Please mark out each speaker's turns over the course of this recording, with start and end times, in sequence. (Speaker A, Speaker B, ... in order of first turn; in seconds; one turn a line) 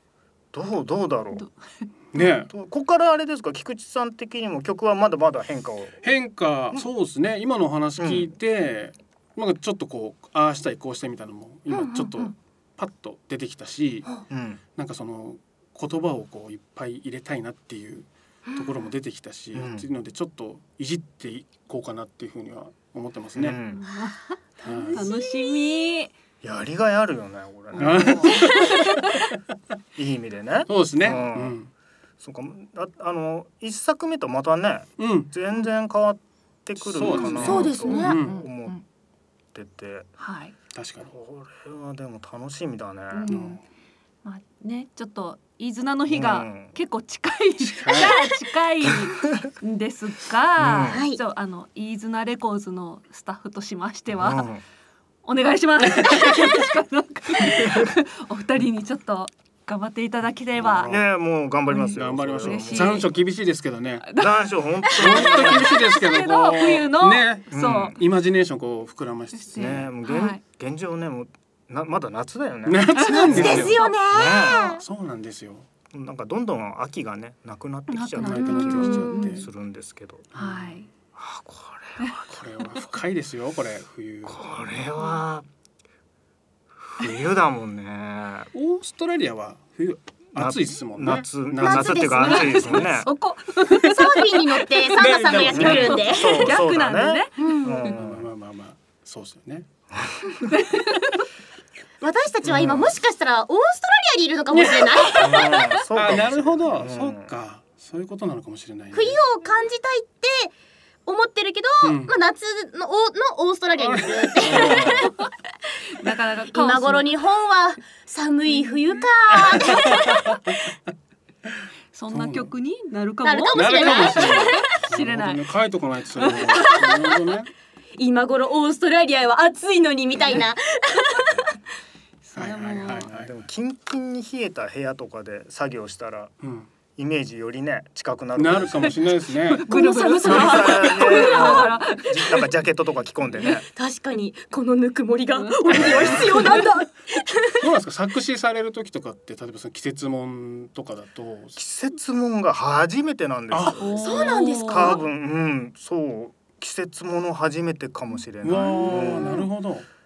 Speaker A: 0.5-1.4
Speaker B: 1.3-2.3
Speaker C: 2.1-2.5
Speaker A: 2.2-6.0
Speaker C: 6.0-14.2
Speaker A: 8.0-8.3
Speaker D: 11.7-12.3
Speaker A: 14.3-14.6
Speaker C: 14.8-23.6
Speaker A: 19.5-19.9
Speaker A: 23.4-23.8
Speaker B: 23.7-26.1
Speaker D: 24.6-25.7
Speaker C: 24.6-25.1
Speaker A: 26.4-28.6
Speaker B: 27.8-29.1
Speaker C: 27.8-29.2
Speaker A: 30.0-31.6
Speaker C: 30.7-31.7
Speaker A: 32.2-38.8
Speaker C: 35.0-35.3
Speaker C: 36.8-38.4
Speaker B: 37.0-38.8
Speaker D: 37.4-38.2
Speaker A: 39.5-40.1
Speaker B: 40.2-40.5
Speaker C: 40.7-41.1
Speaker A: 41.1-43.6
Speaker B: 43.1-43.6
Speaker C: 43.3-43.6
Speaker B: 44.2-54.5
Speaker A: 46.1-46.7
Speaker C: 47.6-48.1
Speaker A: 50.6-51.0
Speaker D: 50.9-51.2
Speaker A: 54.1-54.6
Speaker B: 55.2-61.0
Speaker C: 55.9-56.3
Speaker C: 60.6-61.0
Speaker A: 60.8-63.1
Speaker B: 61.7-63.1
Speaker C: 61.9-64.1
Speaker B: 64.0-68.0
Speaker A: 64.2-65.8
Speaker C: 65.0-69.9
Speaker A: 67.5-68.0
Speaker B: 69.3-70.4
Speaker A: 69.5-74.8
Speaker C: 72.7-73.9
Speaker B: 73.0-73.8
Speaker D: 73.1-74.8
Speaker C: 74.7-75.7
Speaker A: 75.9-80.3
Speaker B: 77.9-79.5
Speaker C: 78.2-79.5
Speaker D: 78.8-79.3
Speaker C: 80.3-80.8
Speaker B: 80.4-80.9
Speaker A: 81.2-82.2
Speaker C: 82.3-84.4
Speaker A: 84.2-85.5
Speaker A: 86.8-88.5
Speaker C: 88.5-92.9
Speaker A: 90.4-93.1
Speaker D: 91.6-92.8
Speaker B: 92.2-97.5
Speaker D: 93.8-96.5
Speaker C: 94.9-96.1
Speaker A: 95.5-98.3
Speaker D: 97.4-97.9
Speaker C: 97.9-99.7
Speaker A: 99.9-100.5
Speaker B: 100.5-101.2
Speaker D: 102.0-105.5
Speaker A: 102.4-102.9
Speaker C: 104.5-105.4
Speaker A: 105.2-107.3
Speaker B: 105.4-105.8
Speaker C: 105.9-109.2
Speaker D: 108.9-110.5
Speaker D: 111.1-115.2
Speaker C: 111.8-112.1
Speaker C: 113.8-115.1
Speaker B: 114.6-115.1
Speaker B: 116.0-117.1
Speaker D: 116.0-120.3
Speaker B: 118.5-119.1
Speaker C: 119.3-120.7
Speaker B: 121.9-125.5
Speaker C: 122.1-122.5
Speaker D: 123.2-124.7
Speaker C: 123.5-127.5
Speaker B: 126.2-127.2
Speaker D: 128.0-131.6
Speaker B: 132.2-133.1
Speaker C: 132.4-133.3
Speaker A: 132.9-136.3
Speaker C: 136.4-136.7
Speaker A: 137.0-139.1
Speaker C: 138.4-139.7
Speaker B: 139.3-142.5
Speaker D: 139.7-141.7
Speaker A: 140.2-143.7
Speaker D: 143.7-147.6
Speaker B: 145.4-146.7
Speaker A: 145.7-146.4
Speaker C: 145.7-146.5
Speaker C: 147.6-151.6
Speaker A: 151.6-159.4
Speaker C: 153.5-154.4
Speaker B: 153.8-155.0
Speaker D: 153.9-155.0
Speaker C: 158.4-159.9
Speaker B: 158.5-159.5